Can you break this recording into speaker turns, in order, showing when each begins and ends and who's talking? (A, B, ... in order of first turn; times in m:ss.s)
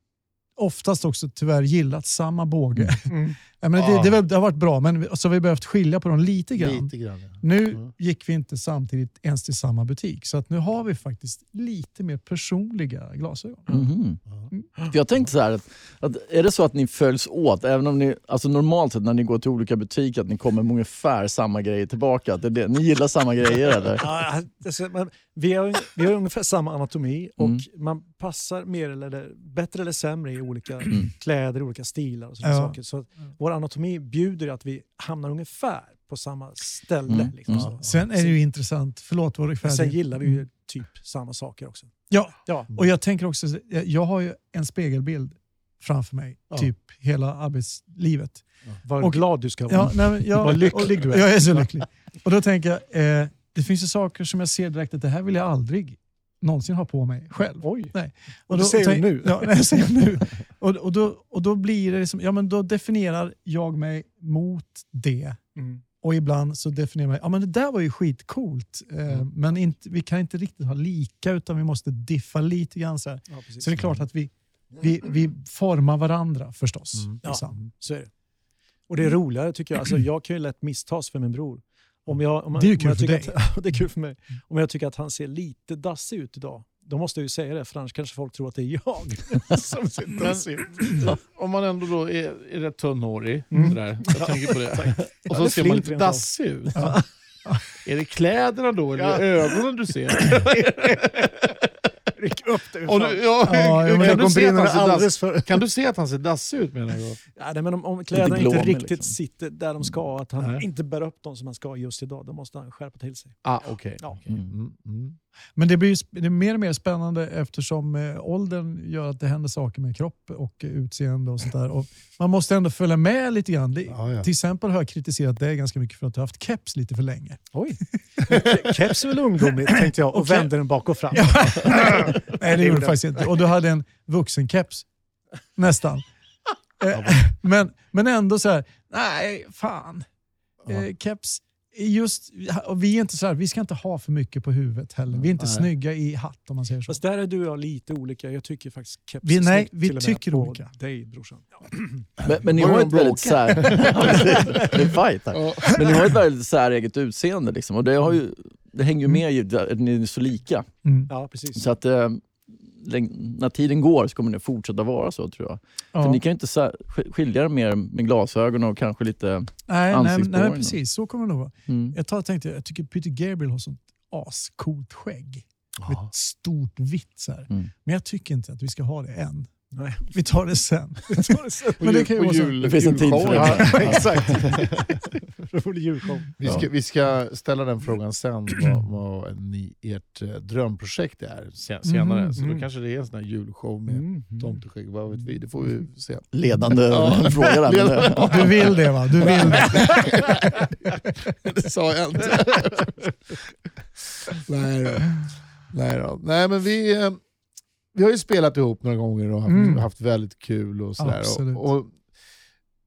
0:00.6-0:13.7 A
0:03.1-0:03.4 B
0:03.8-0:04.2 C
0:06.6-0:07.9 C
0:13.7-0:14.2 D
0:14.9-0:24.1 D
0:24.0-0:38.4 B
0:32.4-0:32.8 A
0:37.1-0:37.7 D
0:37.5-0:38.0 C
0:37.8-0:40.4 A
0:39.6-0:42.7 B
0:42.1-0:48.4 A
0:48.8-0:51.6 B
0:49.0-1:05.4 A
0:57.6-0:57.9 B
0:58.5-0:59.7 B
1:05.6-1:05.8 B
1:06.0-1:17.6 A
1:13.3-1:13.9 B
1:17.2-1:18.1 B
1:18.9-1:31.1 B
1:22.5-1:23.4 A
1:30.1-1:36.9 C
1:33.5-1:33.8 A
1:33.5-1:37.0 B
1:36.8-1:37.6 A
1:37.8-1:41.6 C
1:39.0-1:39.6 B
1:40.1-1:41.4 B
1:42.1-1:45.5 B
1:42.8-1:47.2 C
1:43.4-1:45.0 A
1:47.4-1:54.2 B
1:48.1-1:49.1 D
1:50.4-1:50.6 C
1:53.4-1:55.2 C
1:54.3-1:54.5 D
1:55.6-2:07.5 A
2:03.9-2:04.3 C
2:07.5-2:13.3 B
2:09.7-2:10.5 A
2:11.1-2:14.9 A
2:15.5-2:16.0 A
2:16.8-2:20.1 A
2:16.9-2:17.2 C
2:20.7-2:27.0 A
2:25.2-2:25.7 C
2:26.9-2:32.1 B
2:29.2-2:30.7 A
2:32.2-2:40.7 D
2:32.4-2:36.1 C
2:34.2-2:34.7 B
2:40.8-2:41.1 A
2:41.1-2:41.6 B
2:41.5-2:50.8 D
2:45.9-2:46.2 A
2:49.7-2:59.5 A
2:51.7-2:52.0 D
2:55.8-2:56.1 C
2:59.7-3:00.1 B
3:00.0-3:02.6 A
3:01.1-3:01.9 B
3:01.8-3:05.2 C
3:02.6-3:04.6 D
3:03.3-3:06.4 B
3:06.4-3:16.2 C
3:11.8-3:12.3 A
3:12.4-3:12.6 B
3:13.9-3:14.6 B
3:16.3-3:18.7 D
3:16.9-3:23.1 C
3:18.1-3:20.1 A
3:24.3-3:27.2 C
3:27.9-3:32.0 C
3:29.4-3:29.8 A
3:31.0-3:31.7 A